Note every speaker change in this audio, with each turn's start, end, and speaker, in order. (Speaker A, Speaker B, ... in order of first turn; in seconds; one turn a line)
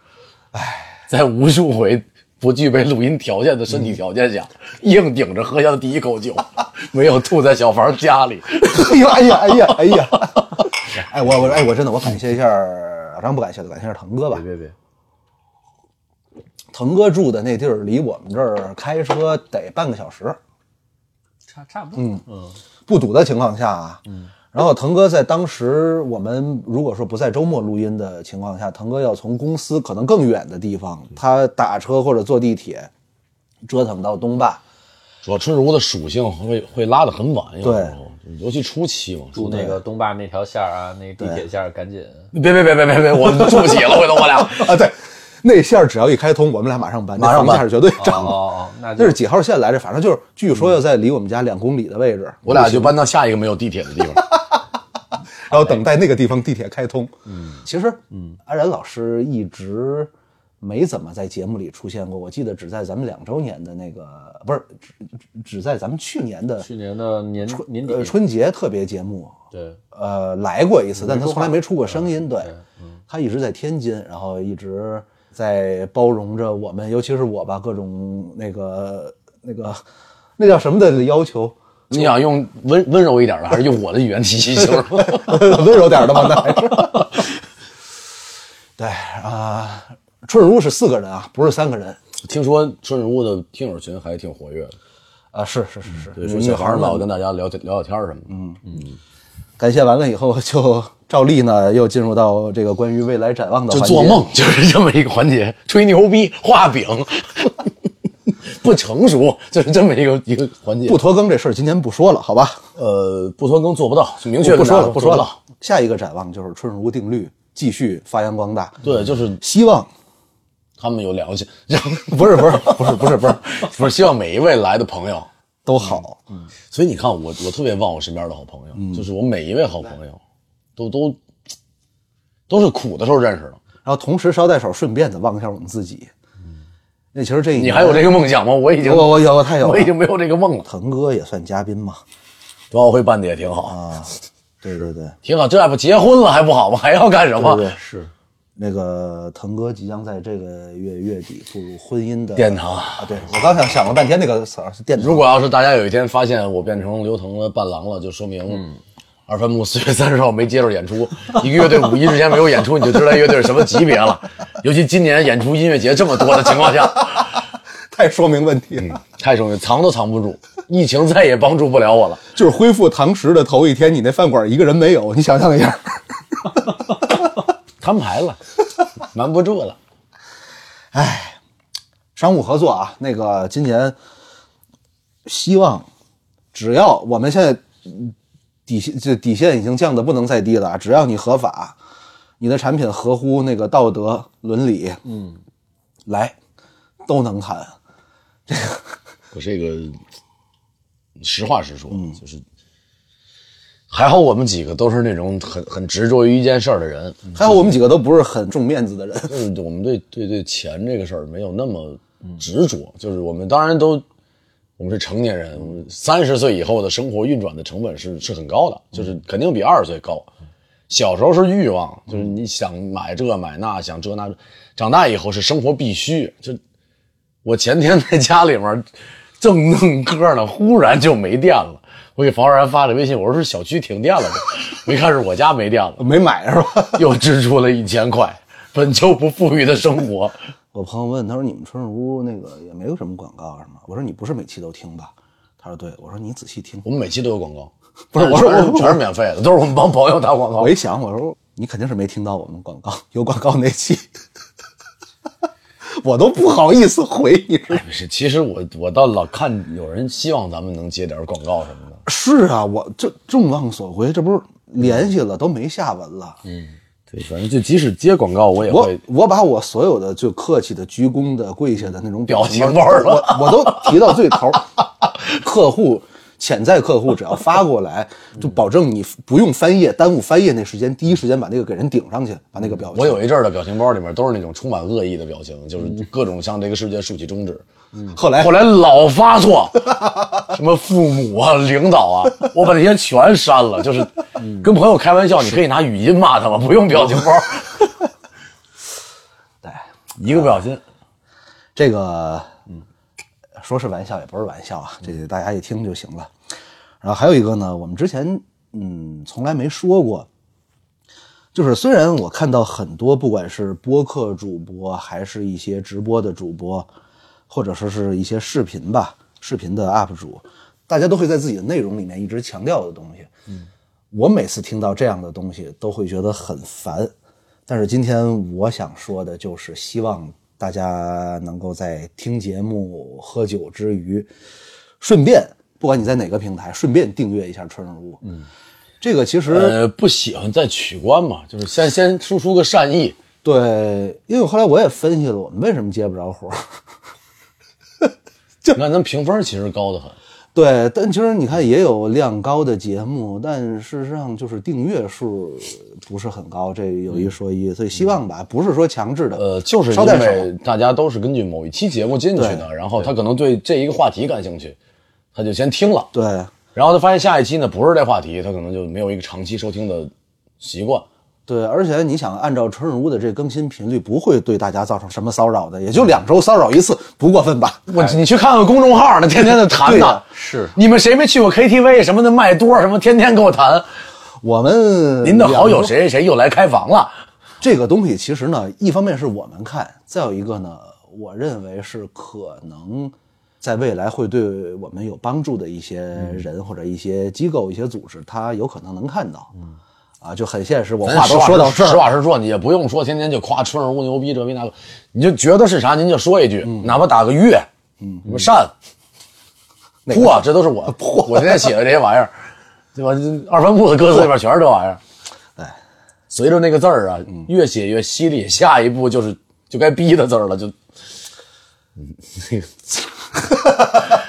Speaker A: 0.5-0.9
Speaker B: 1.1-9.1
Speaker A: 8.7-14.4
Speaker B: 14.3-14.7
Speaker A: 16.7-20.4
Speaker C: 21.5-22.6
Speaker A: 21.9-22.2
Speaker A: 22.9-32.9
Speaker A: 33.6-34.6
Speaker B: 35.2-39.6
Speaker A: 37.6-38.0
Speaker C: 39.3-42.3
Speaker A: 39.5-39.8
Speaker A: 41.2-41.4
Speaker B: 42.3-44.7
Speaker A: 43.6-53.0
Speaker B: 47.2-47.7
Speaker C: 48.0-49.2
Speaker B: 52.4-54.3
Speaker A: 54.1-54.6
Speaker A: 55.5-66.7
Speaker C: 57.3-57.6
Speaker C: 66.6-68.1
Speaker A: 67.5-69.4
Speaker C: 69.5-69.8
Speaker A: 69.9-72.5
Speaker C: 71.0-73.0
Speaker A: 73.1-79.8
Speaker A: 80.4-82.1
Speaker B: 81.9-85.6
Speaker A: 84.7-87.2
Speaker A: 88.8-92.0
Speaker B: 92.2-94.8
Speaker A: 95.3-97.1
Speaker B: 96.2-98.3
Speaker A: 98.3-98.6
Speaker A: 99.6-104.3
Speaker B: 103.7-107.6
Speaker B: 108.4-111.0
Speaker A: 110.8-112.6
Speaker B: 112.8-115.4
Speaker A: 114.4-118.8
Speaker B: 118.8-119.4
Speaker A: 119.4-119.9
Speaker B: 120.8-125.3
Speaker A: 122.1-123.6
Speaker A: 125.6-126.2
Speaker B: 126.7-130.2
Speaker A: 128.8-129.1
Speaker B: 130.8-131.2
Speaker B: 132.5-133.6
Speaker A: 133.8-136.1
Speaker A: 137.1-138.2
Speaker B: 137.6-140.7
Speaker A: 138.8-139.9
Speaker A: 140.6-142.0
Speaker B: 142.7-143.8
Speaker A: 143.6-145.2
Speaker B: 145.2-147.7
Speaker A: 147.3-147.8
Speaker C: 147.8-148.1
Speaker A: 148.6-155.3
Speaker B: 152.3-153.2
Speaker B: 155.0-158.7
Speaker B: 159.3-167.3
Speaker A: 167.9-169.0
Speaker B: 168.8-172.2
Speaker A: 172.3-177.0
Speaker B: 177.8-178.4
Speaker B: 179.0-179.8
Speaker A: 180.9-181.4
Speaker A: 182.2-183.9
Speaker A: 185.2-185.9
Speaker A: 186.5-188.1
Speaker A: 188.7-191.8
Speaker A: 192.4-195.0
Speaker C: 195.1-195.4
Speaker A: 196.1-196.4
Speaker A: 197.0-197.7
Speaker A: 198.5-198.9
Speaker B: 199.3-200.0
Speaker B: 201.2-202.4
Speaker A: 201.9-202.2
Speaker B: 203.9-207.7
Speaker A: 207.3-209.4
Speaker B: 209.3-214.0
Speaker B: 214.8-220.3
Speaker B: 220.9-226.6
Speaker B: 227.4-228.8
Speaker B: 229.4-236.0
Speaker A: 236.0-237.1
Speaker B: 236.9-240.3
Speaker A: 240.7-246.8
Speaker B: 246.8-250.8
Speaker A: 248.1-249.0
Speaker A: 250.6-254.1
Speaker A: 255.8-257.8
Speaker B: 257.7-262.0
Speaker A: 262.1-266.4
Speaker C: 266.4-266.7
Speaker B: 267.1-269.0
Speaker A: 268.7-283.2
Speaker B: 272.3-273.9
Speaker B: 282.9-287.6
Speaker A: 288.1-288.6
Speaker B: 288.3-289.9
Speaker B: 290.5-297.9
Speaker A: 299.6-300.6
Speaker B: 300.2-300.8
Speaker A: 301.7-302.5
Speaker A: 303.6-306.3
Speaker A: 307.0-310.3
Speaker A: 311.5-316.9
Speaker A: 317.5-323.3
Speaker A: 324.1-327.1
Speaker A: 327.7-334.3
Speaker A: 335.0-338.2
Speaker A: 339.0-339.8
Speaker B: 339.5-343.1
Speaker A: 343.4-346.8
Speaker B: 348.7-350.2
Speaker A: 350.5-360.5
Speaker B: 359.4-364.8
Speaker A: 362.4-362.7
Speaker B: 365.3-366.1
Speaker A: 366.1-366.5
Speaker B: 366.7-371.1
Speaker A: 371.5-377.9
Speaker B: 377.9-380.2
Speaker A: 379.8-380.2
Speaker C: 380.3-380.7
Speaker B: 380.7-383.9
Speaker A: 384.4-385.9
Speaker B: 385.2-387.2
Speaker A: 387.6-399.5
Speaker A: 400.2-402.1
Speaker B: 401.0-407.7
Speaker A: 406.6-406.9
Speaker A: 408.0-408.2
Speaker B: 408.2-408.7
Speaker A: 410.1-411.7
Speaker B: 410.1-412.3
Speaker B: 412.9-415.0
Speaker B: 416.3-420.7
Speaker B: 422.0-422.7